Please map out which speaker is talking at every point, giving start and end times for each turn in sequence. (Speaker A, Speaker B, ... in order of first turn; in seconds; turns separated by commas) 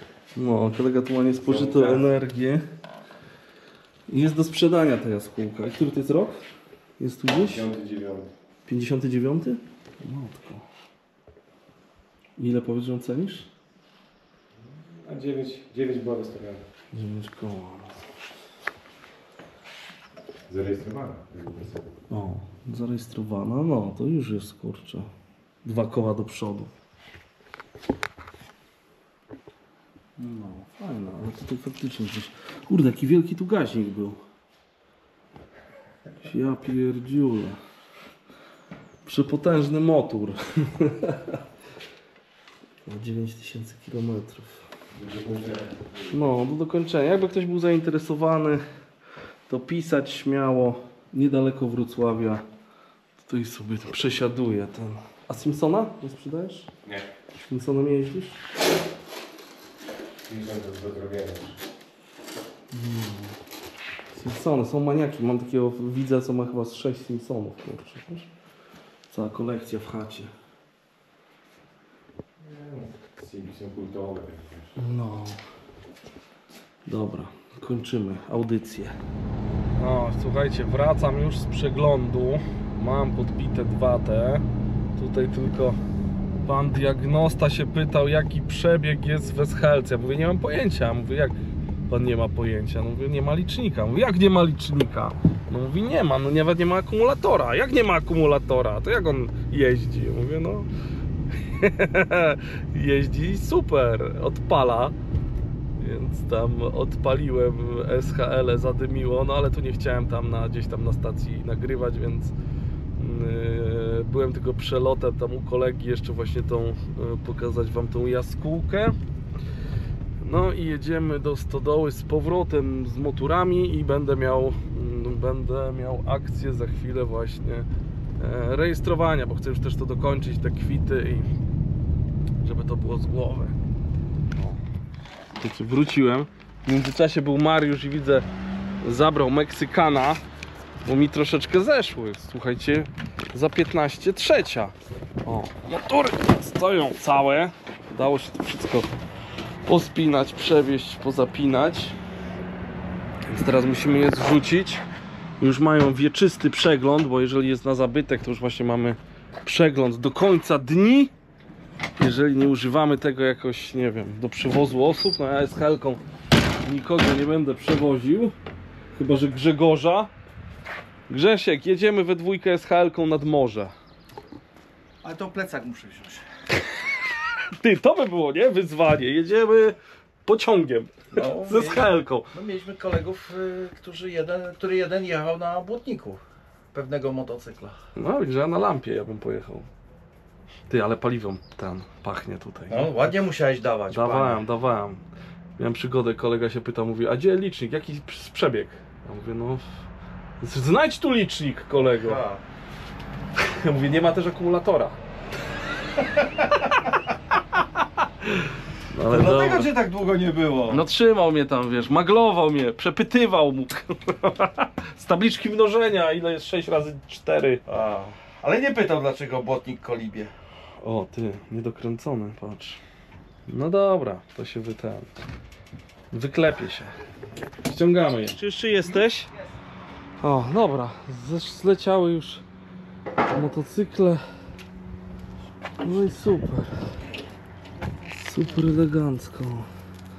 Speaker A: 0.4-2.6, Speaker B: 1.4-1.9, Speaker A: 4.1-6.4, Speaker A: 7.0-7.7, Speaker B: 7.4-8.3, Speaker A: 8.7-10.6, Speaker A: 12.4-13.5, Speaker B: 14.6-16.6, Speaker A: 16.9-18.0, Speaker B: 20.5-21.9, Speaker A: 22.1-25.1, Speaker A: 25.6-26.7, Speaker A: 30.2-34.2, Speaker A: 36.2-37.6, Speaker A: 39.0-41.4, Speaker A: 42.9-44.6, Speaker B: 44.9-46.1, Speaker A: 46.1-48.6, Speaker A: 49.5-52.4, Speaker A: 53.3-56.7, Speaker A: 57.4-58.4, Speaker B: 60.3-61.6, Speaker A: 62.7-63.4, Speaker A: 64.1-68.3, Speaker A: 69.1-70.3, Speaker B: 72.4-74.7, Speaker A: 74.8-75.4, Speaker A: 76.9-78.9, Speaker A: 79.8-84.5, Speaker A: 85.0-85.8, Speaker A: 86.5-91.4, Speaker A: 91.9-100.7, Speaker A: 101.4-105.0, Speaker A: 105.8-112.3, Speaker A: 113.0-119.0, Speaker A: 120.2-127.7, Speaker A: 128.2-131.3, Speaker A: 132.4-133.6, Speaker A: 135.4-138.3, Speaker A: 138.8-140.2, Speaker A: 140.8-144.7, Speaker A: 145.2-148.9, Speaker A: 149.7-152.0, Speaker A: 153.3-154.8, Speaker A: 155.4-161.1, Speaker A: 162.0-166.0, Speaker A: 166.7-168.3, Speaker A: 168.9-170.1, Speaker A: 171.1-173.7, Speaker C: 175.0-176.2, Speaker A: 177.6-182.3, Speaker C: 181.1-186.2, Speaker C: 186.7-187.8, Speaker A: 188.0-189.7, Speaker A: 190.7-193.1, Speaker C: 192.7-194.4, Speaker A: 193.9-195.0, Speaker A: 195.6-199.7, Speaker A: 200.4-202.2, Speaker C: 201.9-202.4, Speaker A: 203.4-205.0, Speaker A: 208.2-209.7, Speaker C: 209.0-210.8, Speaker A: 210.7-217.6, Speaker C: 217.7-220.3, Speaker A: 220.8-222.8, Speaker A: 223.5-225.1, Speaker A: 226.1-226.9, Speaker A: 227.7-229.3, Speaker A: 230.2-232.4, Speaker A: 233.3-234.2, Speaker A: 235.8-236.7, Speaker A: 238.2-239.7